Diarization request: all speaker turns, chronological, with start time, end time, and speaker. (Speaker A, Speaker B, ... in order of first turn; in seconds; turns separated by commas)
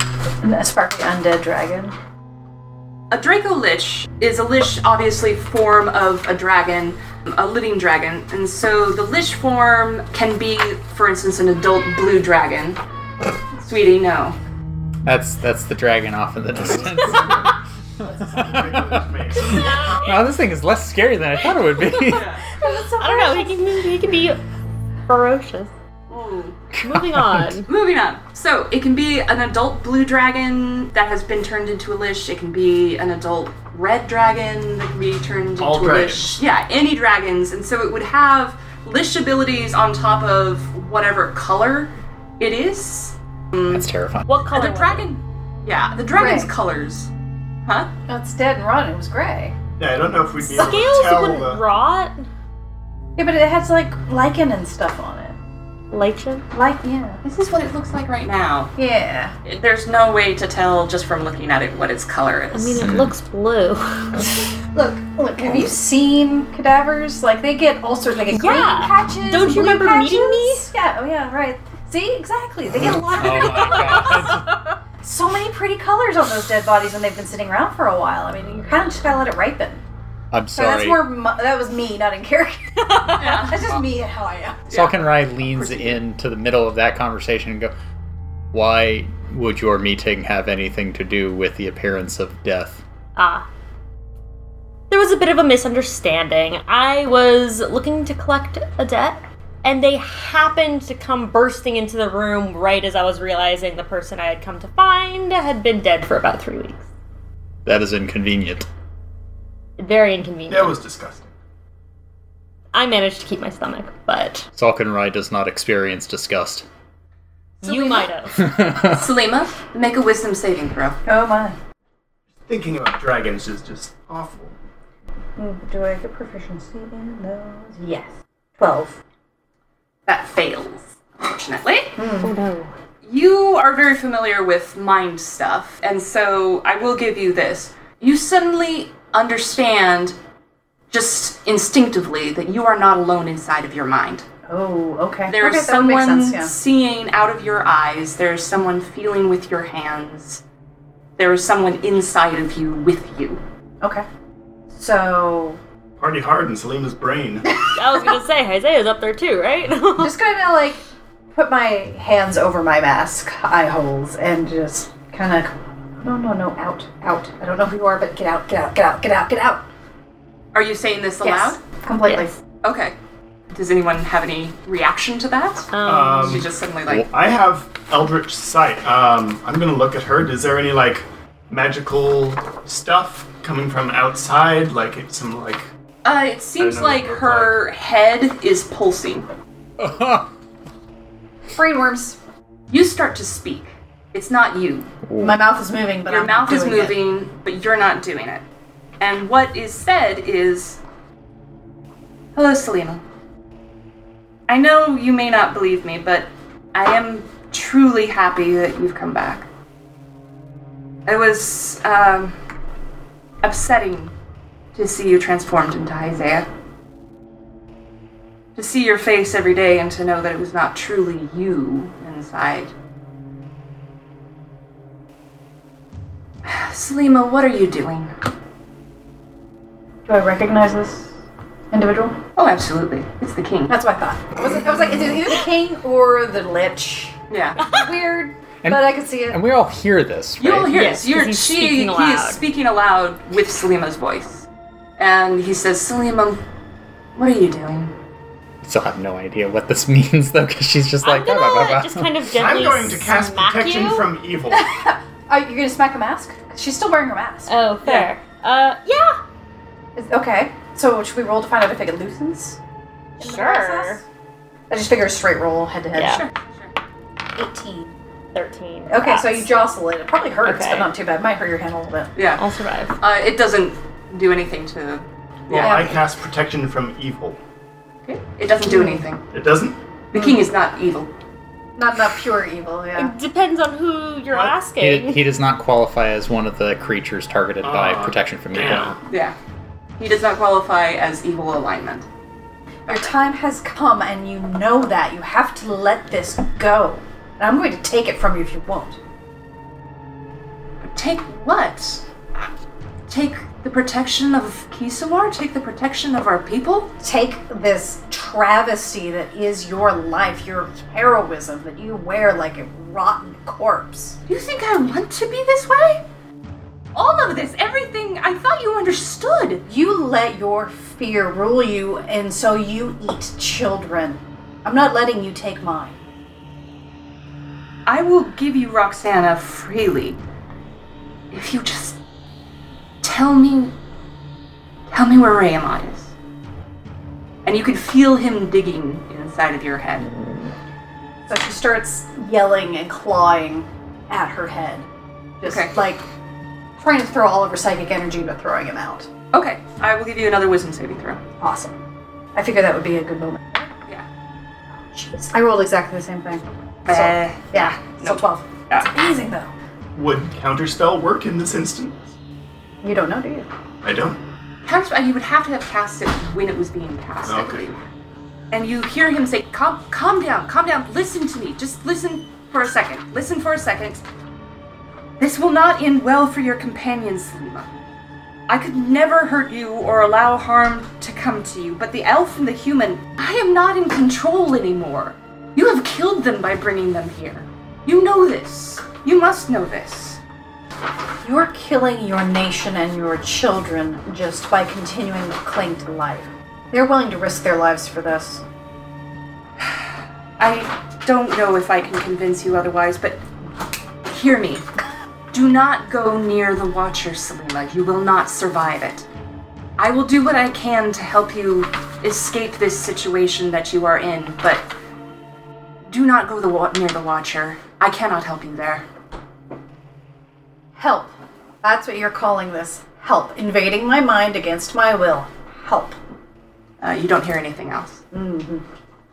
Speaker A: 0.4-1.9, Speaker B: 3.1-12.8, Speaker B: 13.6-14.4, Speaker C: 15.0-17.5, Speaker D: 16.7-17.5, Speaker D: 18.1-19.9, Speaker C: 18.3-22.3, Speaker E: 19.3-20.2, Speaker E: 21.8-22.2, Speaker B: 22.1-22.4, Speaker A: 22.5-23.9, Speaker E: 23.0-24.4, Speaker E: 25.1-25.7, Speaker B: 26.1-26.6, Speaker C: 26.7-27.5, Speaker E: 26.8-27.7, Speaker B: 27.7-43.8, Speaker D: 35.6-36.4, Speaker C: 43.6-44.3, Speaker E: 44.3-45.1, Speaker B: 44.5-47.1, Speaker A: 46.1-46.5, Speaker A: 48.1-49.5, Speaker D: 49.8-51.6, Speaker E: 50.4-52.3, Speaker A: 50.5-50.8, Speaker A: 53.2-55.3, Speaker E: 55.9-56.5, Speaker A: 56.5-57.2, Speaker B: 57.2-58.7, Speaker A: 58.8-59.3, Speaker B: 59.4-62.8, Speaker E: 62.5-64.2, Speaker C: 62.8-63.1, Speaker A: 64.7-74.4, Speaker E: 68.1-70.7, Speaker C: 72.9-74.5, Speaker A: 75.0-79.8, Speaker C: 80.3-81.1, Speaker A: 80.5-84.6, Speaker E: 82.9-83.4, Speaker B: 83.1-83.6, Speaker B: 84.7-86.0, Speaker C: 84.7-87.7, Speaker C: 88.5-92.8, Speaker E: 93.2-93.5, Speaker E: 94.9-106.8, Speaker C: 107.6-108.7, Speaker E: 109.8-110.8, Speaker D: 110.5-111.3, Speaker E: 112.7-114.5, Speaker C: 114.6-116.7, Speaker B: 117.6-118.1, Speaker E: 117.6-118.5, Speaker C: 118.4-119.1, Speaker B: 118.7-121.0, Speaker A: 121.0-121.5, Speaker D: 122.5-124.5, Speaker A: 125.4-127.8, Speaker E: 127.8-128.1, Speaker A: 128.6-129.0, Speaker B: 130.1-132.0, Speaker A: 132.0-132.3, Speaker E: 132.2-132.7, Speaker B: 133.0-140.1, Speaker B: 140.9-144.2, Speaker A: 144.5-146.5, Speaker B: 145.3-150.4, Speaker B: 151.2-153.4, Speaker A: 154.7-155.6, Speaker D: 156.0-157.4, Speaker A: 157.7-158.1, Speaker E: 157.7-160.1, Speaker A: 160.0-169.6, Speaker B: 170.5-171.6, Speaker A: 171.2-172.4, Speaker E: 172.0-172.3, Speaker B: 172.6-172.9, Speaker B: 173.5-177.1, Speaker E: 175.7-176.4, Speaker D: 175.8-176.5, Speaker D: 177.1-185.6, Speaker B: 186.0-189.3, Speaker D: 186.6-187.7, Speaker C: 189.8-190.3, Speaker A: 191.5-192.2, Speaker B: 192.7-194.9, Speaker C: 195.0-195.4, Speaker A: 195.2-197.0, Speaker B: 196.1-198.4, Speaker B: 199.0-200.8, Speaker B: 202.3-203.0, Speaker B: 204.5-209.5, Speaker B: 211.1-212.4, Speaker B: 213.4-214.1, Speaker B: 214.7-216.5, Speaker B: 218.6-222.7, Speaker B: 226.4-228.1, Speaker A: 230.1-231.2, Speaker A: 231.7-232.2, Speaker B: 232.3-233.8, Speaker A: 233.7-239.4, Speaker B: 237.3-237.6, Speaker C: 238.6-240.8, Speaker B: 240.4-244.4, Speaker E: 240.7-242.4, Speaker B: 245.0-246.4, Speaker B: 247.2-247.9, Speaker C: 248.6-252.2, Speaker E: 251.0-254.1, Speaker D: 252.3-254.7, Speaker A: 254.5-257.5, Speaker E: 257.5-259.2, Speaker B: 257.8-258.1, Speaker A: 259.9-262.6, Speaker E: 263.2-264.0, Speaker A: 263.2-264.0, Speaker A: 264.7-266.2, Speaker E: 265.9-266.2, Speaker B: 266.1-266.7, Speaker A: 267.3-267.9, Speaker E: 268.3-269.5, Speaker A: 268.9-272.1, Speaker E: 270.4-270.9, Speaker B: 272.1-272.4, Speaker E: 272.4-273.0, Speaker B: 273.0-275.8, Speaker D: 275.5-277.4, Speaker A: 275.6-276.0, Speaker B: 278.0-279.2, Speaker A: 278.6-279.1, Speaker D: 279.3-279.8, Speaker B: 280.1-281.1, Speaker A: 280.1-280.4, Speaker A: 281.8-283.1, Speaker E: 282.9-285.2, Speaker C: 284.8-289.0, Speaker D: 287.6-289.0, Speaker B: 289.1-289.4, Speaker B: 290.0-292.1, Speaker A: 292.9-299.0, Speaker B: 300.8-302.0, Speaker B: 303.1-306.9, Speaker A: 307.0-314.2, Speaker B: 314.3-316.0, Speaker B: 316.9-319.6, Speaker A: 319.6-326.0, Speaker B: 327.9-330.2, Speaker B: 331.3-332.0, Speaker B: 333.0-333.7, Speaker B: 334.9-336.1, Speaker B: 337.4-340.1, Speaker E: 340.1-340.5, Speaker A: 341.3-344.9, Speaker A: 345.4-346.0, Speaker B: 345.4-345.8, Speaker A: 346.8-349.1, Speaker B: 349.3-351.2, Speaker A: 351.4-351.8, Speaker A: 352.3-353.7, Speaker A: 354.9-359.5, Speaker B: 356.9-358.9, Speaker D: 359.9-362.1, Speaker A: 362.8-363.5, Speaker D: 363.8-364.2, Speaker B: 364.6-367.8, Speaker D: 367.2-367.7, Speaker B: 368.5-374.0, Speaker B: 375.2-377.7, Speaker B: 378.5-390.2, Speaker A: 391.2-398.4, Speaker B: 400.4-403.2, Speaker B: 404.1-404.6, Speaker B: 405.3-409.1, Speaker B: 409.8-414.6, Speaker B: 415.9-418.8, Speaker A: 420.7-426.0, Speaker B: 426.8-428.0, Speaker A: 428.1-428.6